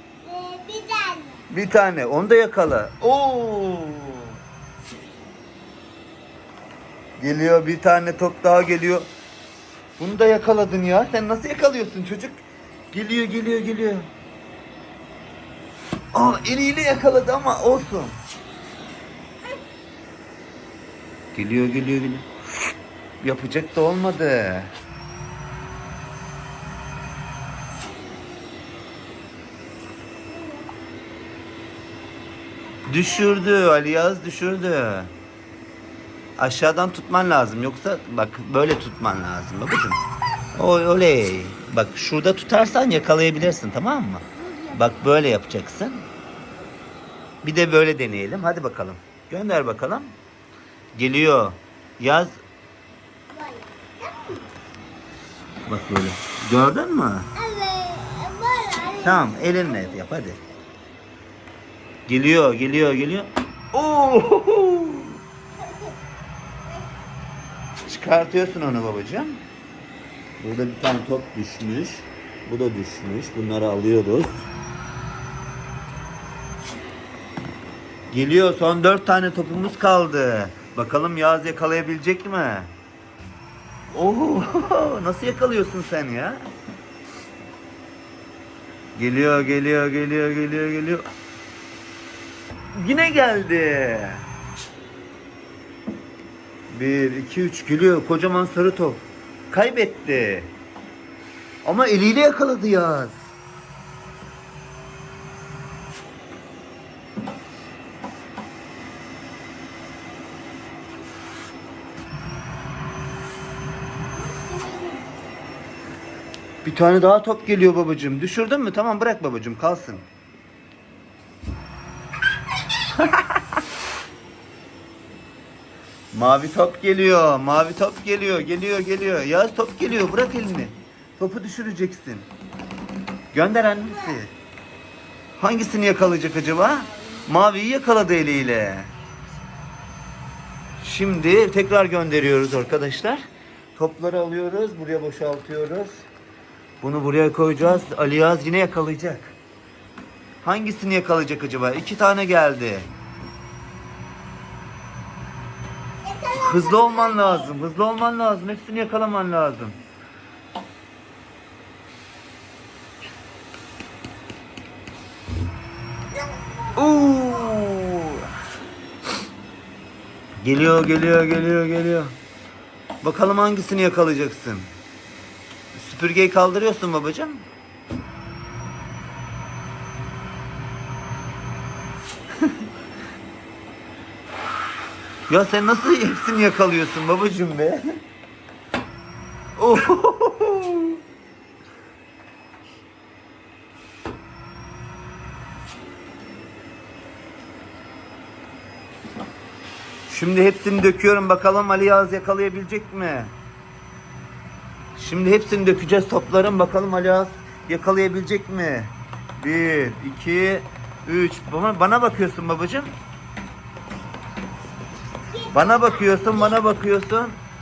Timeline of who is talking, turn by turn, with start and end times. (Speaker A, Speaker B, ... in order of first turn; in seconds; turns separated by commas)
Speaker A: 0.2-1.4, Speaker B: 1.5-4.4, Speaker B: 7.2-9.1, Speaker B: 10.0-12.4, Speaker B: 12.9-14.1, Speaker B: 16.1-18.2, Speaker B: 21.3-22.3, Speaker B: 23.2-24.7, Speaker B: 32.9-35.1, Speaker B: 36.4-40.0, Speaker B: 40.5-46.0, Speaker B: 47.4-50.1, Speaker B: 50.9-52.4, Speaker A: 53.3-54.5, Speaker B: 55.6-57.3, Speaker A: 57.4-59.8, Speaker B: 59.0-60.4, Speaker B: 62.1-65.2, Speaker A: 65.6-65.9, Speaker B: 67.8-69.4, Speaker B: 70.4-74.4, Speaker B: 78.1-82.7, Speaker B: 83.9-86.4, Speaker B: 88.9-91.0, Speaker B: 92.7-94.3, Speaker B: 96.7-100.5, Speaker B: 101.6-103.2, Speaker A: 114.2-115.1, Speaker B: 116.6-120.0, Speaker B: 123.0-123.2, Speaker B: 126.1-132.3, Speaker B: 133.3-134.3, Speaker B: 135.4-138.9, Speaker B: 140.8-146.0, Speaker B: 146.8-149.3, Speaker B: 150.4-152.9, Speaker A: 156.1-157.5, Speaker B: 156.3-159.8, Speaker B: 166.8-168.3, Speaker B: 170.4-172.2, Speaker B: 173.0-174.7, Speaker B: 175.7-177.4, Speaker B: 185.3-188.0, Speaker B: 189.6-191.0, Speaker B: 200.1-203.3, Speaker B: 204.9-212.9, Speaker A: 215.3-216.6, Speaker B: 215.5-217.4